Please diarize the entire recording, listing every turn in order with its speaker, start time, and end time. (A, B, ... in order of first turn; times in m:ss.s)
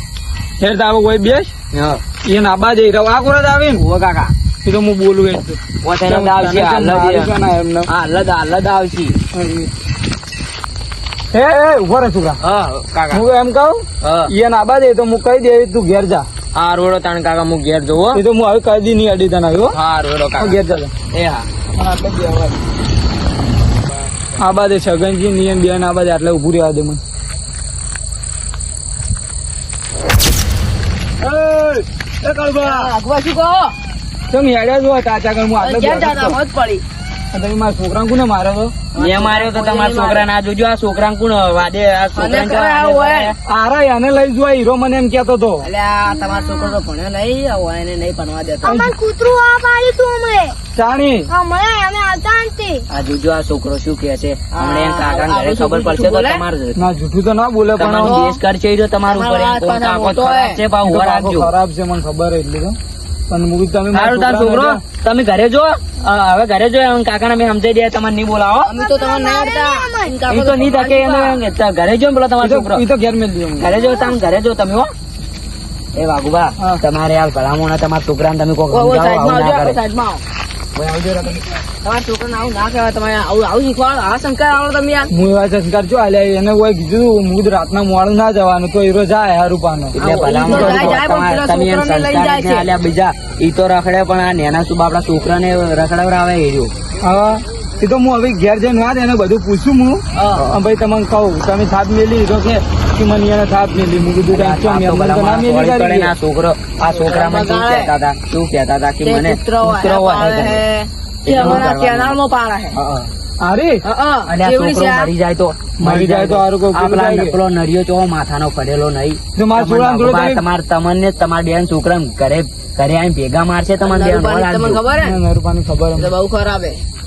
0:00.6-0:01.5 A
0:02.2-0:03.8 A
0:03.8-0:04.3 B
0:04.6-0:07.9 A
0:05.8-0:06.2 B
0:06.0-0:07.3 C
0:08.0-0:09.2 C
0:09.3-0:09.7 A
0:11.3-0:12.4 A
0:12.4-0:13.2 C
0:13.1-0:16.3 A
0:16.5-0:18.2 C
0:18.1-0:19.8 A
0:19.7-0:20.6 C
0:20.4-0:20.9 A
0:21.1-0:21.5 C
0:21.8-0:22.5 A
0:24.4-0:27.0 A
0:31.2-0:32.9 A
0:32.6-0:33.8 D
0:34.3-0:36.4 A
0:35.6-0:36.8 D
0:37.3-0:38.7 A
0:38.9-0:40.3 D
0:39.0-0:43.3 B
0:42.1-0:43.3 D
0:43.4-0:45.7 A
0:45.6-0:48.8 D
0:46.2-0:46.8 E
0:48.6-0:50.6 E
0:48.6-0:48.9 A
0:50.7-0:51.3 A
0:51.3-0:52.8 E
0:52.9-0:56.8 B
0:54.5-0:56.4 D
0:56.7-0:58.2 A
0:57.8-1:01.5 B
0:58.0-0:58.4 D
0:59.0-1:00.6 D
1:00.8-1:02.8 A
1:03.3-1:04.8 A
1:03.9-1:08.7 B
1:08.6-1:11.4 D
1:08.8-1:10.1 E
1:10.3-1:12.8 B
1:12.4-1:13.7 A
1:13.6-1:14.9 B
1:15.9-1:19.8 B
1:18.7-1:20.2 D
1:20.7-1:21.4 B
1:21.8-1:25.1 D
1:25.1-1:31.0 A
1:30.0-1:36.7 B
1:30.0-1:32.7 D
1:37.0-1:46.1 A
1:40.2-1:40.4 D
1:44.3-1:50.6 B
1:46.8-1:47.9 D
1:49.0-1:52.8 D
1:51.2-1:52.1 B
1:51.3-1:51.7 A
1:52.8-1:53.1 B
1:53.4-1:53.8 A
1:53.8-1:55.1 D
1:54.3-2:04.8 B
1:55.8-1:57.4 A
1:59.3-2:00.4 A
2:03.8-2:05.2 D
2:05.0-2:06.1 A
2:06.0-2:06.8 D